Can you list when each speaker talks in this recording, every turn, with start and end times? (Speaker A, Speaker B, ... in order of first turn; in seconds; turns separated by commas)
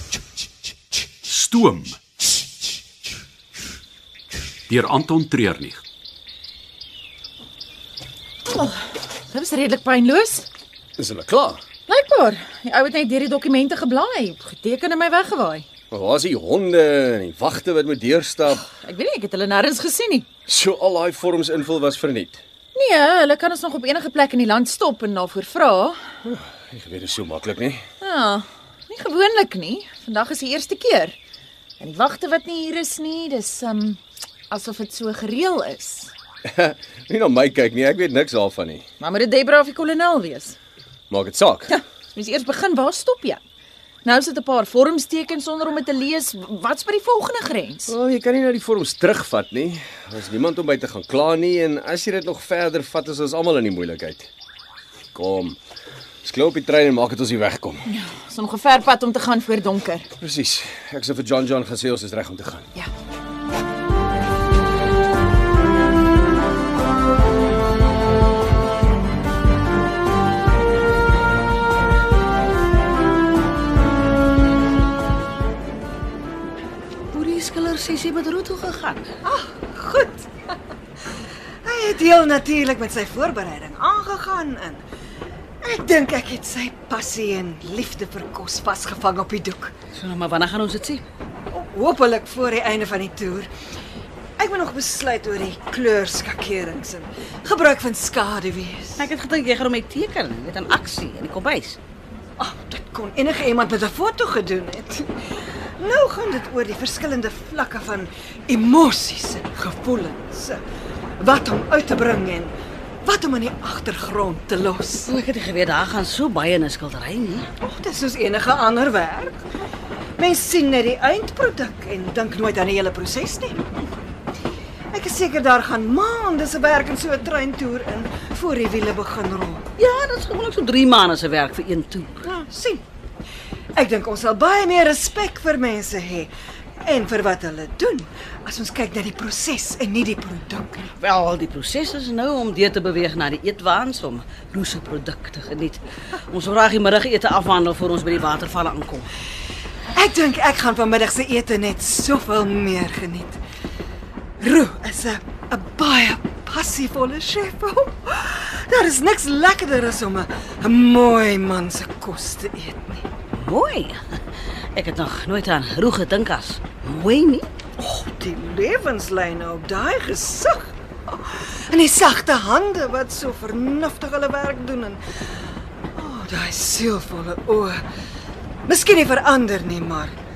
Speaker A: 1.2-2.0, Speaker A: 4.7-5.8, Speaker B: 8.5-10.5, Speaker C: 11.0-11.6, Speaker B: 11.9-15.7, Speaker C: 15.9-18.7, Speaker B: 18.7-20.3, Speaker C: 20.5-22.4, Speaker B: 22.7-26.0, Speaker C: 26.2-27.8, Speaker B: 28.0-31.2, Speaker B: 31.8-36.1, Speaker C: 36.5-38.9, Speaker B: 39.0-40.6, Speaker C: 41.1-41.8, Speaker B: 42.1-43.4, Speaker B: 44.0-47.9, Speaker C: 47.9-54.3, Speaker C: 55.1-55.6, Speaker C: 56.2-57.9, Speaker B: 57.9-60.1, Speaker C: 60.2-62.7, Speaker D: 77.1-79.1, Speaker E: 79.3-80.3, Speaker E: 81.7-84.8, Speaker E: 85.6-89.7, Speaker D: 89.9-91.0, Speaker E: 91.5-93.5, Speaker E: 94.4-99.1, Speaker D: 99.0-101.8, Speaker E: 102.4-105.2, Speaker E: 105.8-110.6, Speaker E: 111.2-115.1, Speaker D: 115.1-117.5, Speaker E: 117.6-119.4, Speaker E: 120.2-123.6, Speaker E: 124.9-129.6, Speaker D: 129.8-132.3, Speaker E: 132.2-132.8, Speaker E: 133.8-140.9, Speaker D: 141.0-149.1, Speaker E: 149.9-153.4, Speaker E: 154.4-163.1, Speaker D: 163.3-164.0, Speaker D: 164.8-167.5, Speaker E: 167.8-175.0, Speaker E: 175.9-177.8, Speaker E: 178.7-180.2